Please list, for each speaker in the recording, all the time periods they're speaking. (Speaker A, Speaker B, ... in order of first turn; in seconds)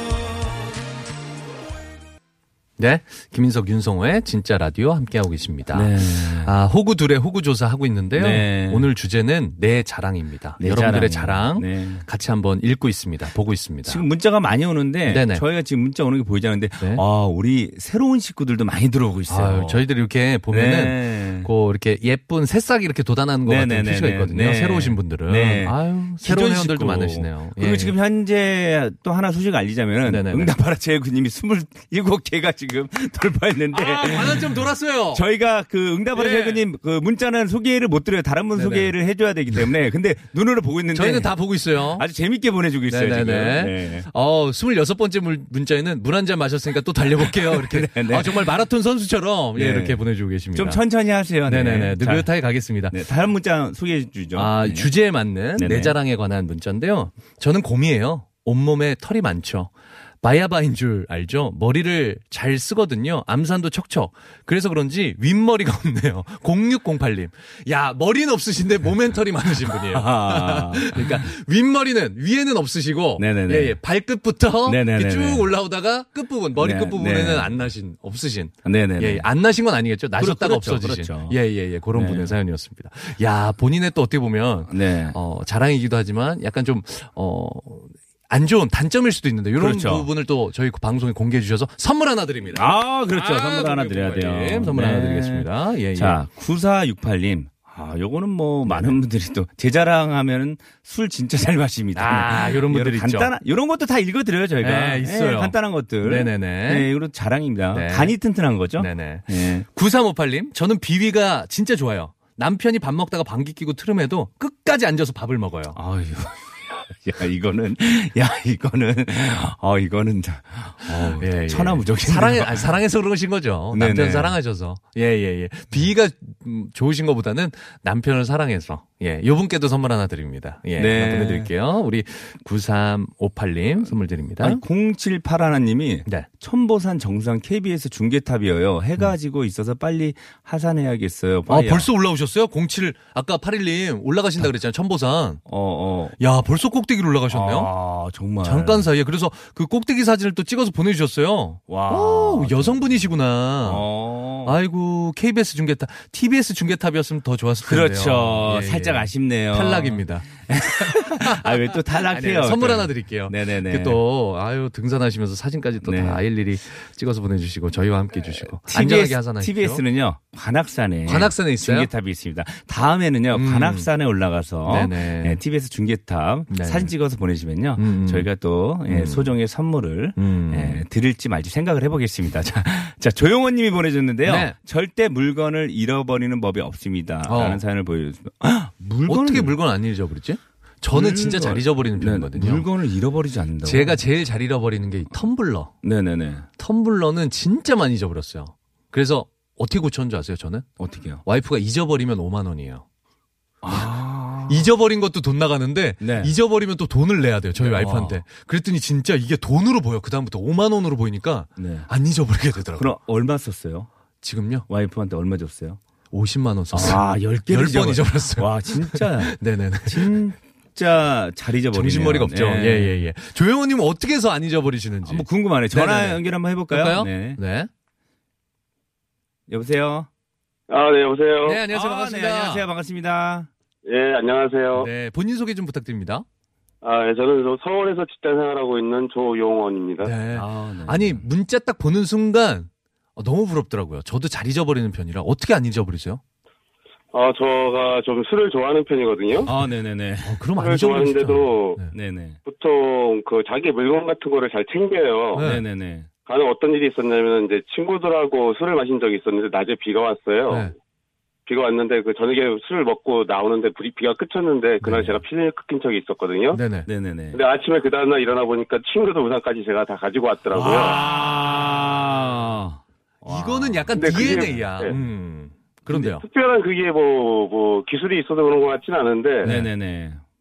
Speaker A: 2.8-14.0, 15.1-15.4, 19.3-27.9, 30.1-30.5, 33.7-35.2, 36.1-36.6, 38.5-38.9, 40.9-42.0, 42.9-50.8, 51.5-53.0, 54.3-96.2, 98.7-99.0, 101.9-103.3, 104.6-106.9, 107.7-108.1, 108.8-115.8, 120.9-134.6, 141.5-145.4, 146.2-147.7, 148.4-153.9, 154.4-169.8, 171.1-171.9, 173.3-173.9, 174.7-175.4, 176.5-176.9, 177.8-178.3, 178.9-179.3, 180.2-180.8, 184.2-184.5, 187.2-187.6, 189.1-192.7, 193.6-195.7, 196.6-200.6, 201.2-202.8, 204.5-212.9, 214.2-214.7, 216.1-220.2, 221.7-227.7, 231.4-232.7, 234.8-236.2, 240.0-246.2, 250.2-251.9, 255.3-255.6, 264.8-265.2, 266.5-266.9, 273.2-276.2
Speaker B: 5.7-6.5, 8.1-8.9, 10.6-12.0, 13.8-19.8, 20.5-21.5, 23.4-44.1, 47.2-48.5, 49.5-50.0, 50.5-52.3, 52.8-54.9, 55.6-56.0, 69.7-71.3, 73.2-73.8, 74.7-75.5, 76.6-77.6, 78.6-79.3, 80.2-81.4, 81.9-82.3, 84.7-85.2, 89.6-90.1, 92.5-109.7, 115.7-122.8, 123.7-124.4, 130.8-131.5, 134.4-141.9, 145.4-146.2, 147.3-148.9, 151.7-153.0, 153.6-154.6, 157.6-164.0, 165.8-166.2, 168.3-189.6, 190.9-194.0, 195.8-196.5, 200.8-201.2, 203.6-204.7, 206.0-206.3, 207.6-208.2, 211.6-211.9, 212.8-213.9, 214.7-215.8, 216.7-223.0, 225.0-227.4, 229.5-230.1, 231.7-233.5, 240.3-241.2, 249.4-250.4, 251.9-252.4, 255.4-256.1, 266.9-267.4, 270.5-274.6, 279.4-280.2
Speaker C: 230.7-231.6, 233.8-234.9, 236.8-240.1, 247.1-249.5, 250.6-251.8, 252.4-255.5, 256.3-260.7, 261.5-266.6, 267.3-271.0, 273.9-274.9, 275.9-279.5